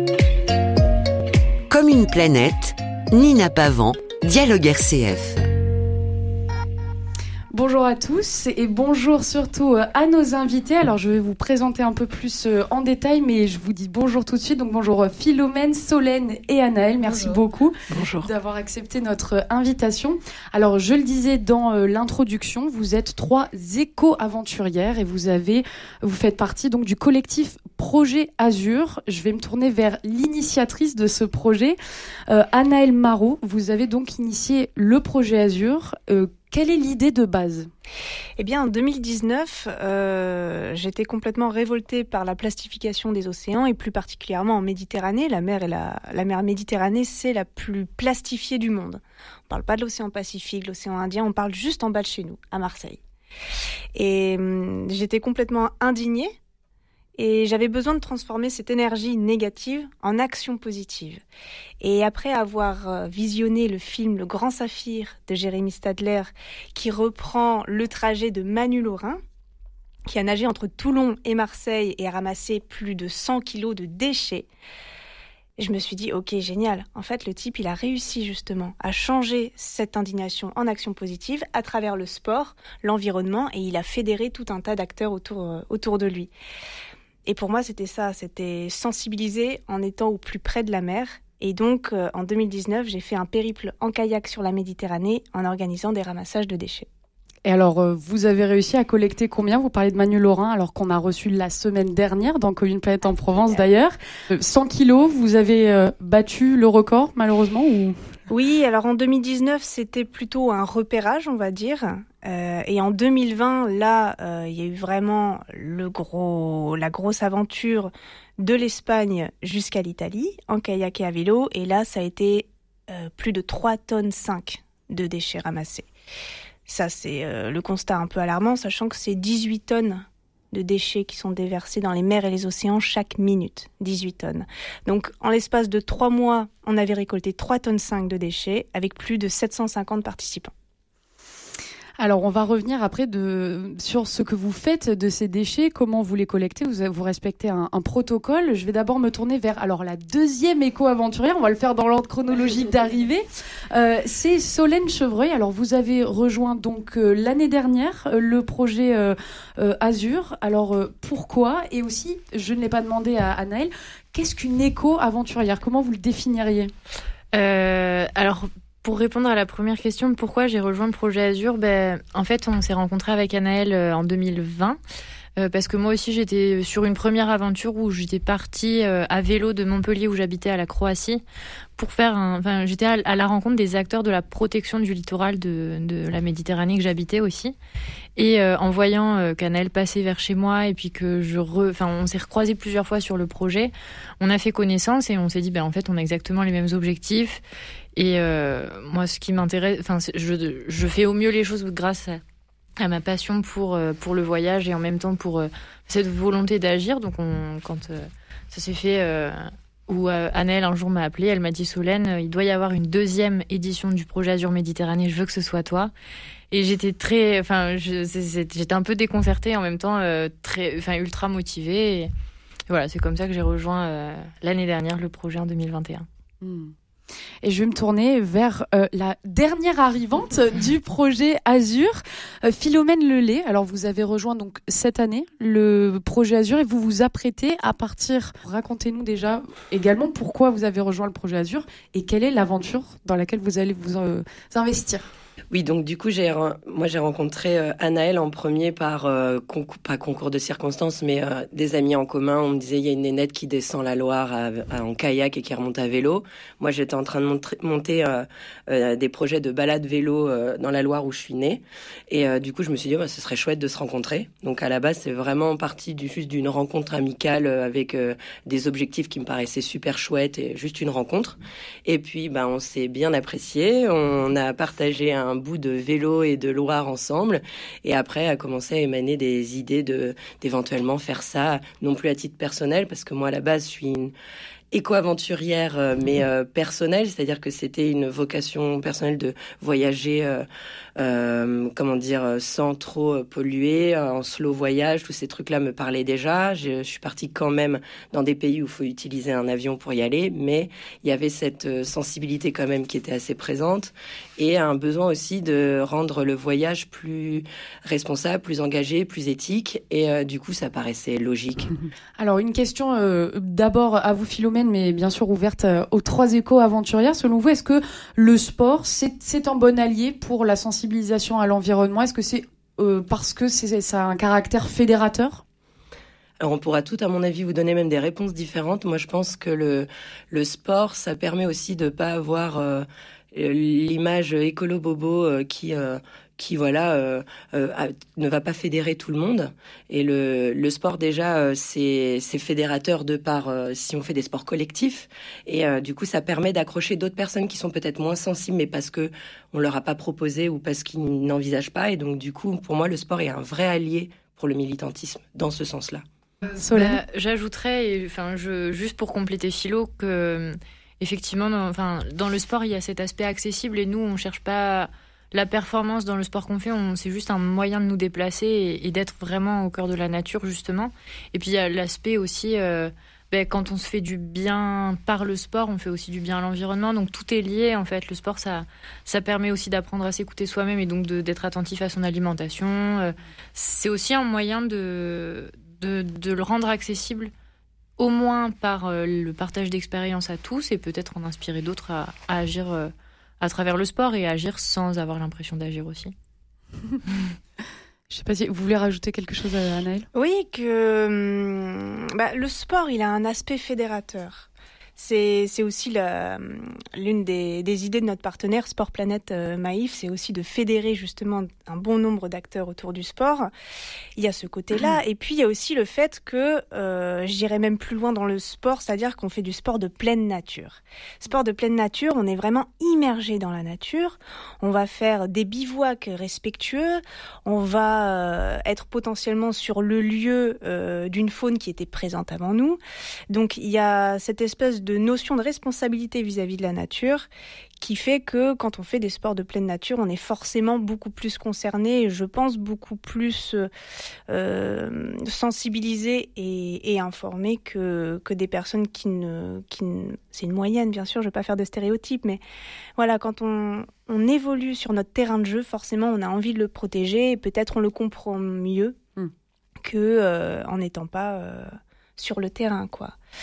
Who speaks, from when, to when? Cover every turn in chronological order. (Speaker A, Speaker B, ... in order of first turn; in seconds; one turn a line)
Speaker A: 1.7-5.4
Speaker B: 7.5-31.8
Speaker C: 17.9-18.3
Speaker B: 32.3-37.7
Speaker D: 38.4-53.0
Speaker D: 54.0-56.4
Speaker D: 57.2-61.2
Speaker D: 61.8-69.2
Speaker D: 70.1-74.5
Speaker D: 75.6-86.3
Speaker D: 87.3-96.9
Speaker B: 97.5-108.0
Speaker D: 108.3-125.9
Speaker D: 126.7-140.5
Speaker B: 142.0-166.7
Speaker E: 167.3-174.8
Speaker E: 175.4-181.2
Speaker E: 181.8-187.6
Speaker E: 188.2-197.4
Speaker E: 197.9-202.2
Speaker E: 202.8-215.9
Speaker E: 216.5-222.1
Speaker E: 222.7-226.1
Speaker B: 226.4-226.7
Speaker B: 227.4-245.1
Speaker C: 245.5-284.1
Speaker C: 284.7-290.5
Speaker C: 291.0-311.7
Speaker B: 312.2-325.4
Speaker C: 326.4-356.0
Speaker B: 356.5-357.0
Speaker E: 356.7-387.3
Speaker E: 388.0-396.1
Speaker B: 398.1-400.1
Speaker D: 400.1-413.5
Speaker D: 414.2-432.8
Speaker D: 433.3-437.3
Speaker D: 437.8-443.7
Speaker D: 444.3-452.4
Speaker D: 453.0-459.0
Speaker D: 459.8-463.2